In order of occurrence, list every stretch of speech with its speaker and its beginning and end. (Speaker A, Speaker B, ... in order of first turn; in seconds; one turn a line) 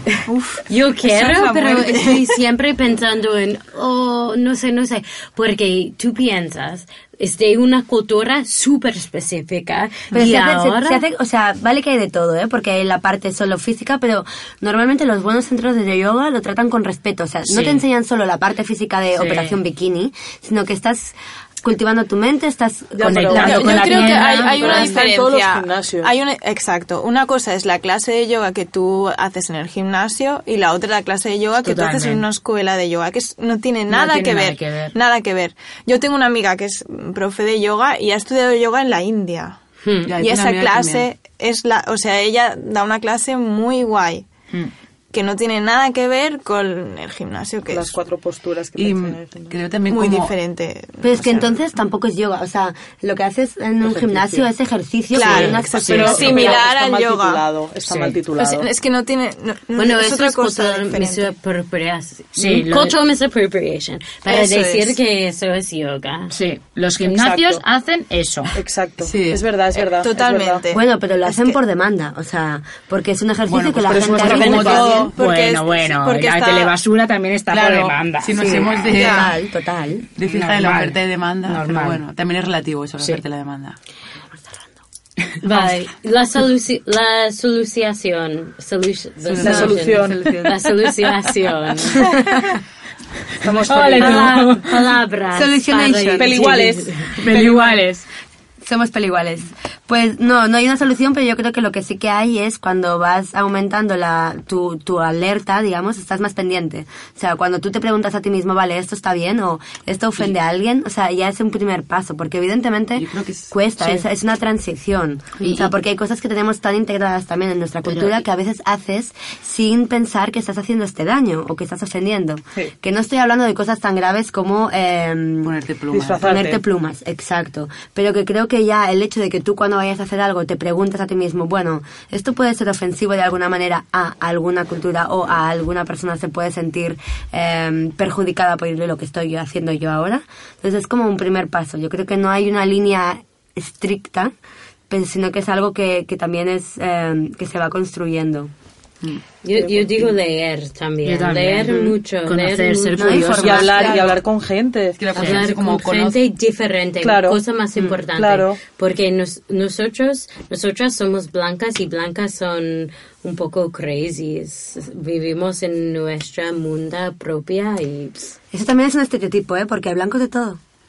Speaker A: 0.2-2.4
Speaker B: 0.7-11.0
Speaker C: 10.1-23.6
Speaker D: 17.5-17.8
Speaker D: 19.1-19.6
Speaker E: 22.9-26.1
Speaker D: 23.0-25.0
Speaker A: 23.3-39.6
Speaker D: 31.6-32.2
Speaker D: 33.9-34.9
Speaker B: 39.8-40.1
Speaker F: 40.0-41.1
Speaker A: 40.2-44.2
Speaker A: 45.1-47.9
Speaker E: 47.7-49.5
Speaker F: 48.8-50.3
Speaker A: 49.9-51.5
Speaker C: 51.0-56.6
Speaker E: 53.8-54.5
Speaker A: 55.1-57.4
Speaker E: 55.2-58.7
Speaker D: 55.3-56.2
Speaker D: 57.9-58.1
Speaker A: 58.3-61.3
Speaker B: 59.8-66.3
Speaker D: 62.4-63.0
Speaker A: 64.3-65.0
Speaker D: 66.3-68.5
Speaker E: 67.0-67.6
Speaker E: 68.5-70.6
Speaker F: 69.0-69.6
Speaker A: 70.0-71.6
Speaker C: 70.7-74.9
Speaker F: 73.5-75.1
Speaker E: 73.8-75.1
Speaker A: 74.2-76.7
Speaker D: 75.2-78.9
Speaker F: 77.5-79.3
Speaker C: 78.3-80.0
Speaker A: 78.9-79.3
Speaker F: 80.2-83.8
Speaker D: 80.2-82.0
Speaker B: 85.4-92.1
Speaker D: 89.4-89.8
Speaker E: 89.4-90.4
Speaker C: 89.4-90.5
Speaker C: 91.9-92.5
Speaker E: 93.4-94.8
Speaker B: 93.7-97.4
Speaker C: 93.7-94.1
Speaker C: 95.3-96.3
Speaker E: 96.2-98.0
Speaker C: 98.6-125.5
Speaker F: 113.0-113.5
Speaker D: 117.9-118.2
Speaker F: 125.4-126.5
Speaker E: 125.9-126.6
Speaker C: 126.2-144.3
Speaker C: 144.9-148.5
Speaker B: 149.4-153.2
Speaker E: 149.6-150.1
Speaker D: 151.0-153.8
Speaker C: 153.0-154.0
Speaker E: 153.3-155.0
Speaker F: 153.6-154.2
Speaker F: 155.0-156.2
Speaker B: 155.1-168.3
Speaker D: 155.2-155.5
Speaker E: 157.0-157.4
Speaker E: 158.1-158.6
Speaker C: 168.5-170.6